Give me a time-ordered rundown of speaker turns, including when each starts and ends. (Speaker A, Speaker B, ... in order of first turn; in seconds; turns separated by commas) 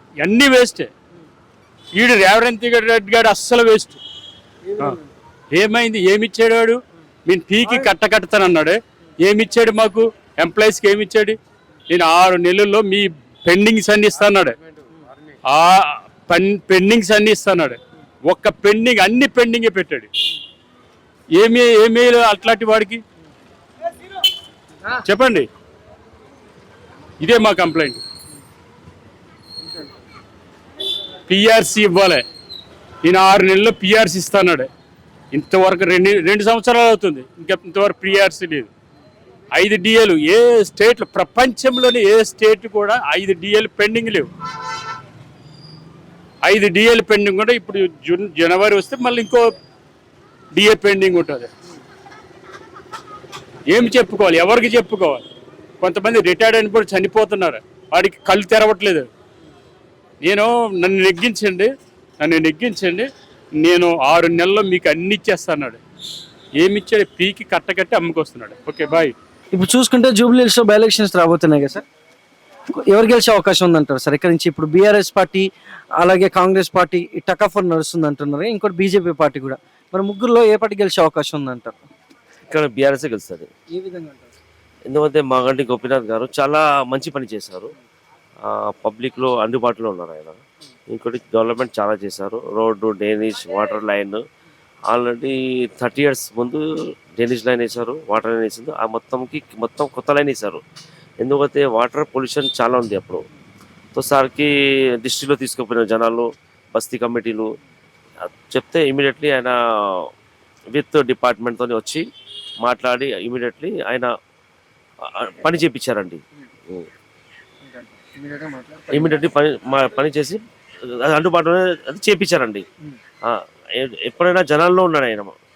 Speaker A: 0.2-0.9, Speaker A: 1.9-4.0, Speaker A: 5.5-11.4, Speaker A: 11.9-14.6, Speaker A: 15.5-20.1, Speaker A: 21.3-23.0, Speaker A: 25.0-25.5, Speaker A: 27.2-28.0, Speaker A: 31.3-32.2, Speaker A: 33.0-34.7, Speaker A: 35.3-38.7, Speaker A: 39.5-44.3, Speaker A: 46.4-49.5, Speaker A: 50.5-51.5, Speaker A: 53.7-55.2, Speaker A: 55.8-59.1, Speaker A: 60.2-65.8, Speaker A: 66.6-69.1, Speaker B: 69.5-71.8, Speaker B: 72.8-75.5, Speaker B: 76.0-81.8, Speaker C: 82.5-83.5, Speaker B: 83.7-84.2, Speaker C: 84.9-87.7, Speaker C: 88.5-90.4, Speaker C: 90.9-94.2, Speaker C: 94.9-96.6, Speaker C: 97.2-100.6, Speaker C: 101.2-103.2, Speaker C: 103.9-104.5, Speaker C: 105.0-107.5, Speaker C: 108.5-110.0, Speaker C: 110.7-112.0, Speaker C: 112.6-114.1, Speaker C: 115.2-116.8, Speaker B: 118.2-119.0, Speaker C: 118.9-120.4, Speaker C: 121.0-122.6, Speaker C: 123.2-125.3